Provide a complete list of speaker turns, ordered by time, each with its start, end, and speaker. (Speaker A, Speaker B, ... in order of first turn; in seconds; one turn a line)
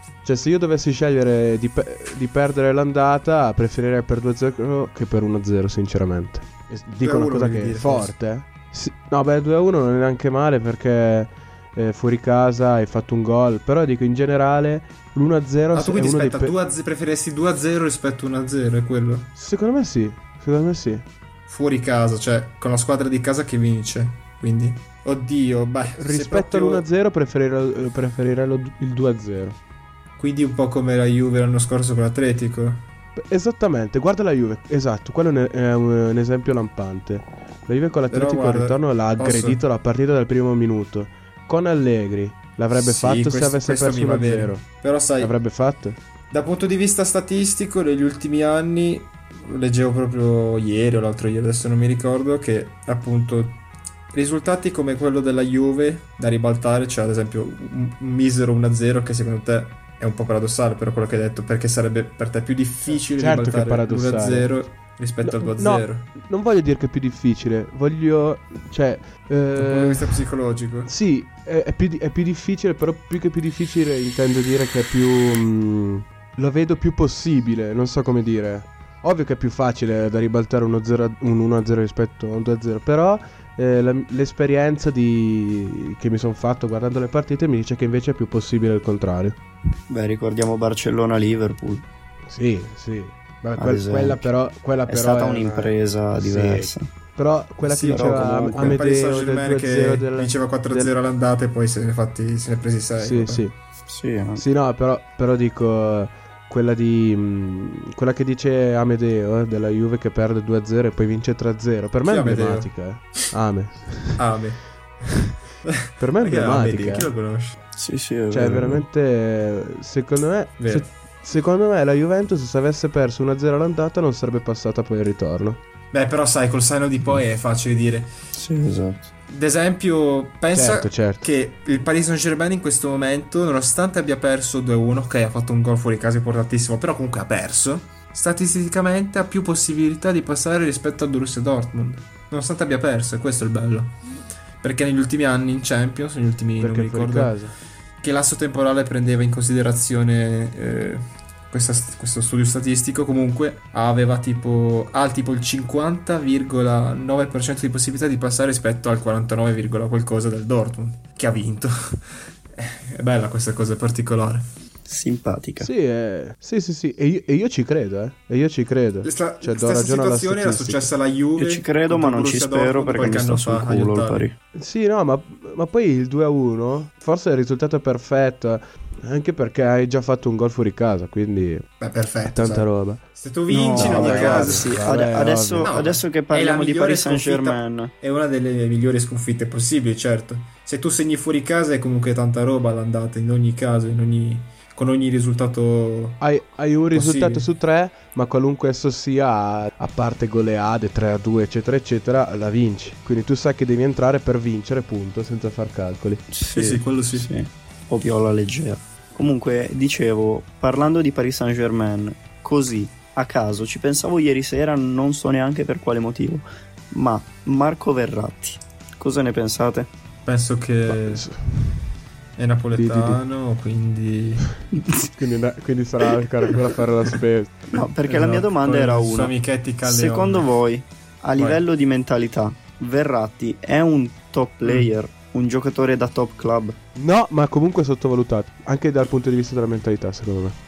Speaker A: 0.2-16.6
Speaker B: 7.0-8.1
Speaker B: 15.7-19.3
Speaker A: 19.4-21.1
Speaker B: 21.5-26.9
Speaker A: 25.9-29.6
Speaker B: 30.2-32.9
Speaker A: 33.2-44.6
Speaker B: 38.1-39.6
Speaker B: 42.7-45.3
Speaker A: 45.2-46.0
Speaker B: 46.3-53.6
Speaker B: 54.1-66.1
Speaker A: 62.9-64.5
Speaker A: 65.2-70.2
Speaker B: 69.5-70.9
Speaker A: 70.9-89.4
Speaker C: 89.9-91.8
Speaker A: 92.3-100.9
Speaker C: 93.6-94.3
Speaker C: 94.9-96.9
Speaker B: 97.6-103.5
Speaker C: 97.9-98.8
Speaker A: 103.0-103.5
Speaker C: 103.9-104.4
Speaker A: 104.4-114.2
Speaker B: 112.0-113.3
Speaker B: 114.2-117.6
Speaker A: 116.0-117.1
Speaker C: 117.8-118.8
Speaker A: 118.3-125.6
Speaker B: 120.6-120.9
Speaker B: 125.9-128.1
Speaker C: 128.3-129.1
Speaker B: 129.3-143.9
Speaker A: 130.5-131.2
Speaker B: 144.6-147.4
Speaker A: 146.6-147.6
Speaker B: 148.0-162.0
Speaker B: 162.6-164.4
Speaker C: 164.9-165.7
Speaker A: 165.6-170.9
Speaker B: 169.0-174.3
Speaker C: 171.4-174.3
Speaker A: 174.5-181.7
Speaker B: 181.8-184.9
Speaker A: 182.2-183.0
Speaker C: 183.5-187.9
Speaker A: 183.7-185.8
Speaker B: 185.6-196.2
Speaker A: 196.2-206.2
Speaker B: 196.9-197.5
Speaker C: 206.3-219.9
Speaker B: 206.5-207.3
Speaker B: 220.2-221.3
Speaker A: 220.9-221.8
Speaker B: 222.4-224.5
Speaker A: 222.8-223.2
Speaker C: 224.8-225.1
Speaker A: 225.1-227.8
Speaker C: 227.7-236.8
Speaker B: 228.1-230.5
Speaker B: 231.4-231.6
Speaker B: 234.6-234.9
Speaker A: 236.9-240.6